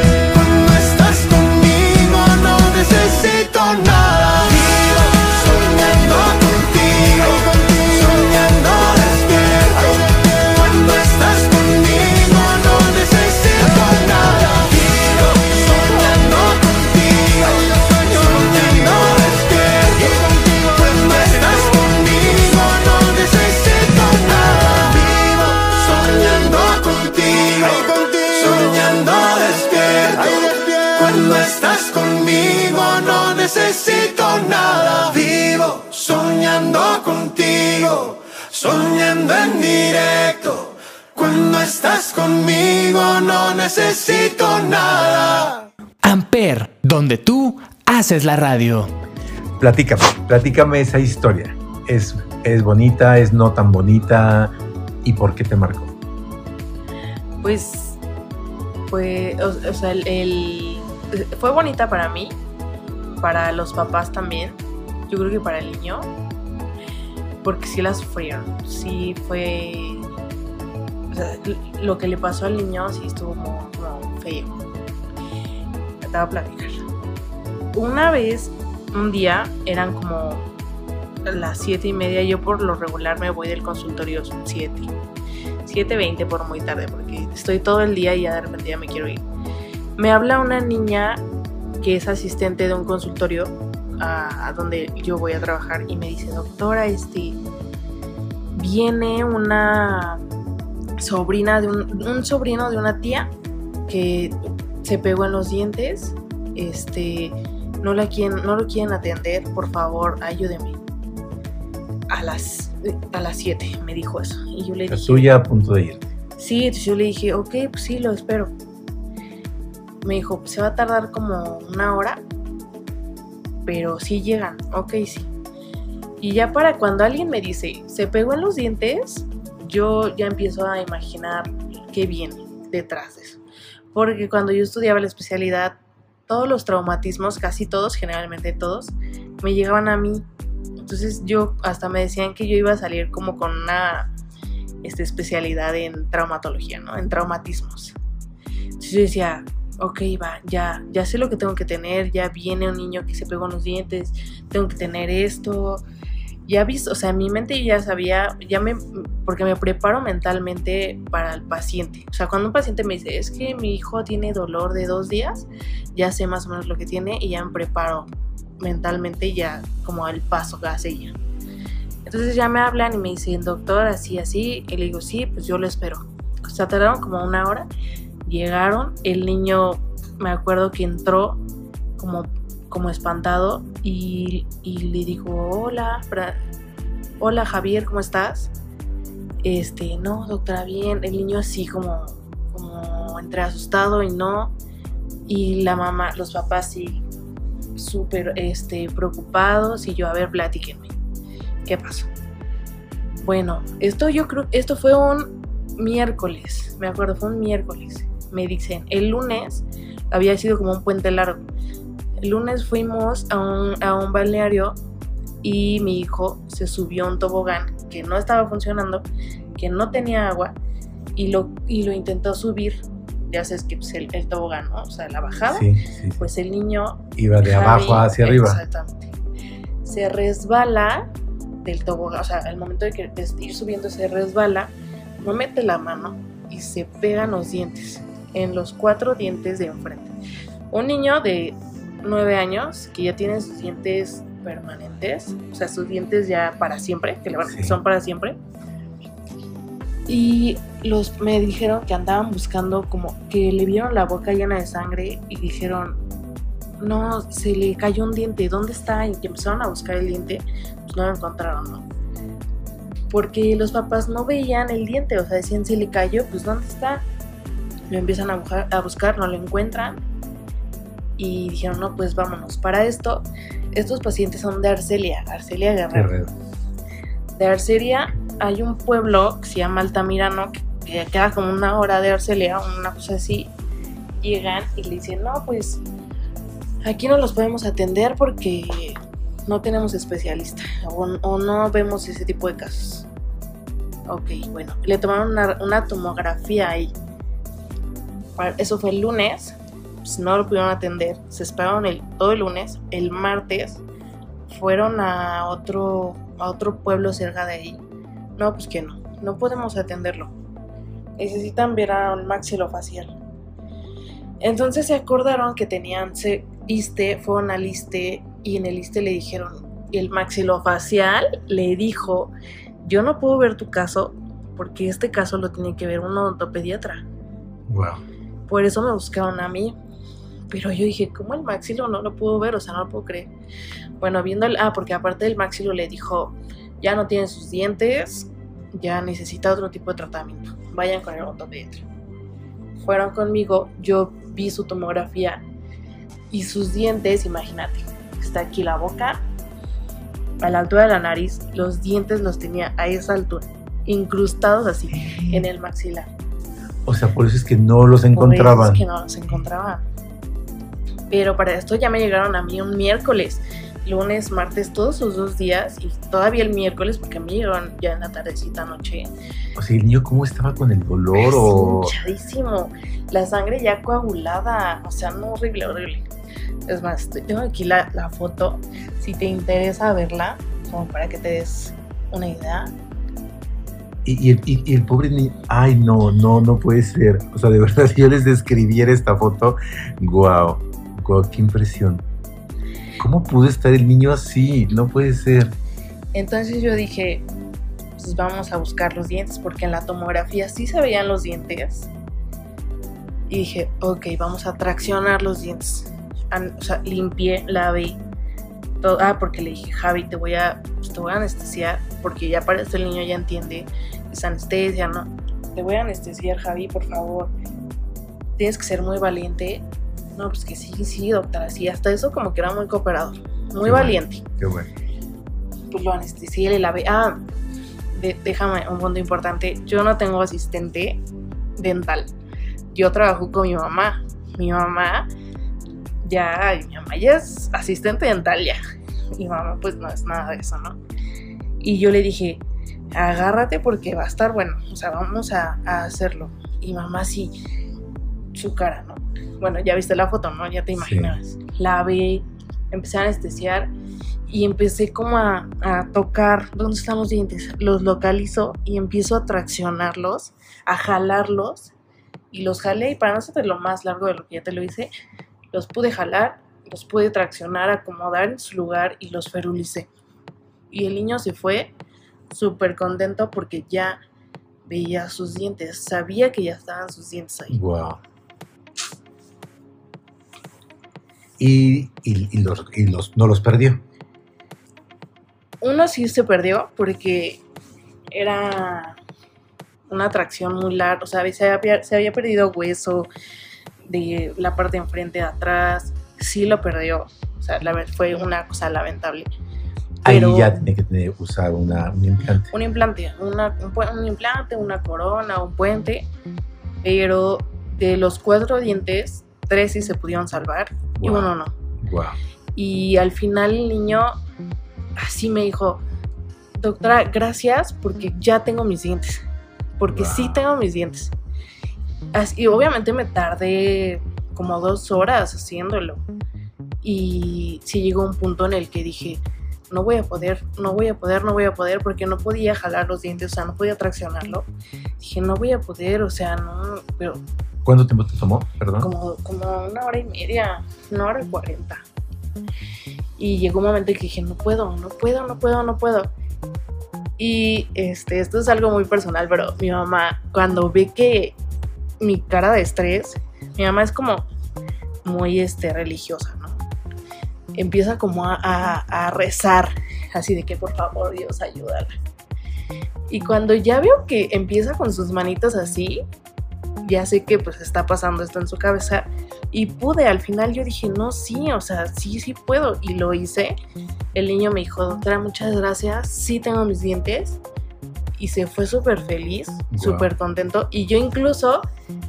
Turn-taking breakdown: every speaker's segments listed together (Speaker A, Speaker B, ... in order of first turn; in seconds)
Speaker A: 0.3-45.6
Speaker B: 46.0-48.9
Speaker C: 49.6-55.9, 114.9-116.1, 225.5-226.3, 227.2-228.6, 247.5-247.8, 275.9-276.3, 327.7-328.0, 356.9-358.8, 369.6-371.9, 384.0-392.0, 393.0-395.5, 423.6-424.7, 450.8-451.1, 477.5-478.0, 481.4-483.8, 500.0-502.5, 511.0-512.2, 519.9-520.4, 537.6-538.9, 579.7-580.1
Speaker D: 57.4-58.0, 58.9-62.4, 63.2-66.1, 67.4-70.0, 71.1-74.6, 76.0-76.8, 77.7-80.5, 81.2-84.9, 85.6-89.2, 90.0-91.2, 91.8-97.4, 98.5-100.2, 101.0-103.3, 103.9-110.8, 112.1-115.3, 116.4-118.5, 120.0-122.2, 123.6-125.3, 126.2-133.4, 133.9-135.8, 136.3-140.2, 140.8-144.1, 144.8-147.9, 148.8-155.8, 156.4-168.1, 168.6-171.2, 172.1-177.7, 178.2-181.4, 182.0-186.4, 187.2-188.5, 189.4-194.5, 195.2-197.0, 197.8-200.9, 201.7-202.1, 203.2-211.4, 212.2-214.8, 215.4-219.0, 219.6-220.6, 221.1-229.1, 229.8-231.1, 231.6-240.1, 240.7-248.4, 250.1-256.0, 256.8-261.8, 263.1-267.0, 267.9-270.0, 271.2-276.1, 277.3-283.5, 284.2-285.8, 286.8-293.1, 294.1-296.9, 298.4-303.8, 304.5-307.8, 308.4-310.3, 311.2-313.1, 314.4-327.0, 328.5-329.8, 330.5-333.3, 334.0-341.8, 342.8-345.4, 346.3-349.2, 350.4-356.1, 358.1-359.8, 361.1-369.1, 371.1-376.1, 376.7-382.7, 396.1-397.2, 398.0-401.9, 403.3-408.0, 408.8-417.3, 418.4-419.6, 420.1-424.2, 425.7-427.2, 427.9-431.0, 431.6-432.1, 432.7-435.1, 436.0-438.6, 439.1-440.8, 441.6-447.4, 448.3-453.7, 454.3-461.7, 462.3-464.9, 465.5-469.9, 470.7-471.7, 472.3-474.0, 474.6-477.6, 485.6-487.4, 488.1-489.0, 489.9-493.1, 493.9-499.3, 500.0-500.6, 502.5-506.1, 506.8-511.5, 512.5-514.2, 515.0-515.8, 516.6-519.2, 519.8-521.1, 522.1-526.0, 526.8-534.5, 535.0-537.2, 538.8-541.8, 543.2-546.1, 547.2-551.4, 552.0-554.2, 555.0-556.6, 557.5-561.9, 563.1-566.0, 566.8-573.6, 574.1-577.4, 578.2-581.6